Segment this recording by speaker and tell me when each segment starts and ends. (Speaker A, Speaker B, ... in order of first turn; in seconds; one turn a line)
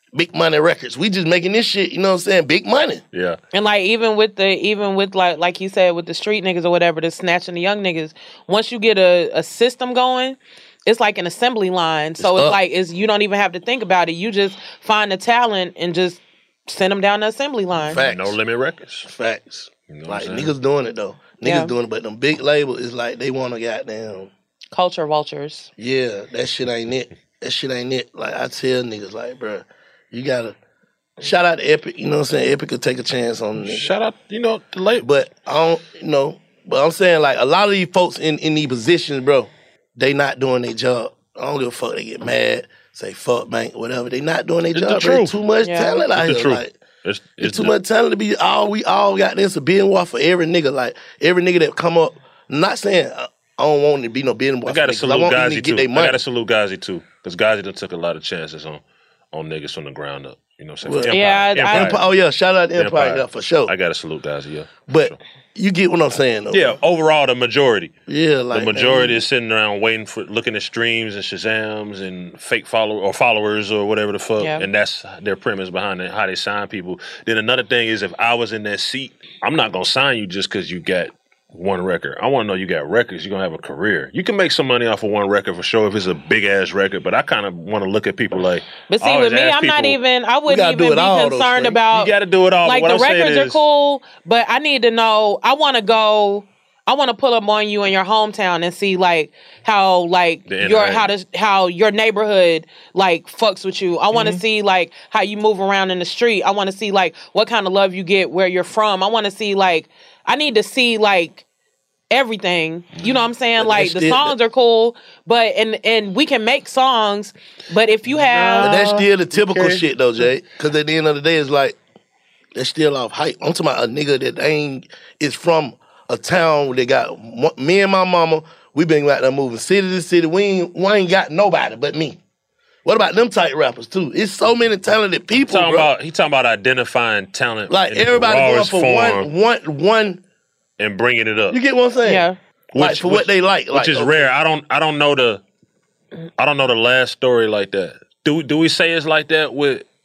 Speaker A: 0.1-3.0
Speaker B: 3.1-3.4
Speaker C: 3.5-18.0
Speaker A: 12.2-12.6
Speaker A: 17.9-18.4
Speaker B: 17.9-19.1
Speaker A: 19.0-24.3
Speaker B: 19.9-20.5
Speaker C: 21.4-21.7
Speaker C: 24.7-25.7
Speaker A: 25.8-30.6
Speaker A: 31.2-33.9
Speaker B: 33.6-35.1
Speaker A: 35.0-46.7
Speaker B: 44.7-45.4
Speaker C: 45.6-46.0
Speaker B: 46.1-47.7
Speaker A: 47.4-56.2
Speaker B: 54.6-58.8
Speaker B: 59.3-62.0
Speaker A: 60.8-63.7
Speaker C: 61.1-62.0
Speaker B: 62.8-65.2
Speaker A: 64.9-66.8
Speaker B: 66.5-67.9
Speaker A: 68.1-69.2
Speaker B: 68.5-90.0
Speaker C: 74.4-74.7
Speaker C: 88.9-92.1
Speaker A: 90.5-91.8
Speaker B: 91.9-93.6
Speaker C: 92.6-111.4
Speaker B: 100.5-101.1
Speaker B: 104.1-104.4
Speaker C: 112.1-118.8
Speaker B: 113.0-113.3
Speaker A: 113.6-114.3
Speaker B: 118.1-119.8
Speaker A: 118.6-121.8
Speaker A: 122.5-132.2
Speaker A: 132.8-135.9
Speaker B: 135.3-139.3
Speaker A: 137.7-140.2
Speaker B: 140.8-141.6
Speaker A: 141.5-144.3
Speaker C: 142.0-142.4
Speaker B: 142.7-145.4
Speaker B: 146.4-149.8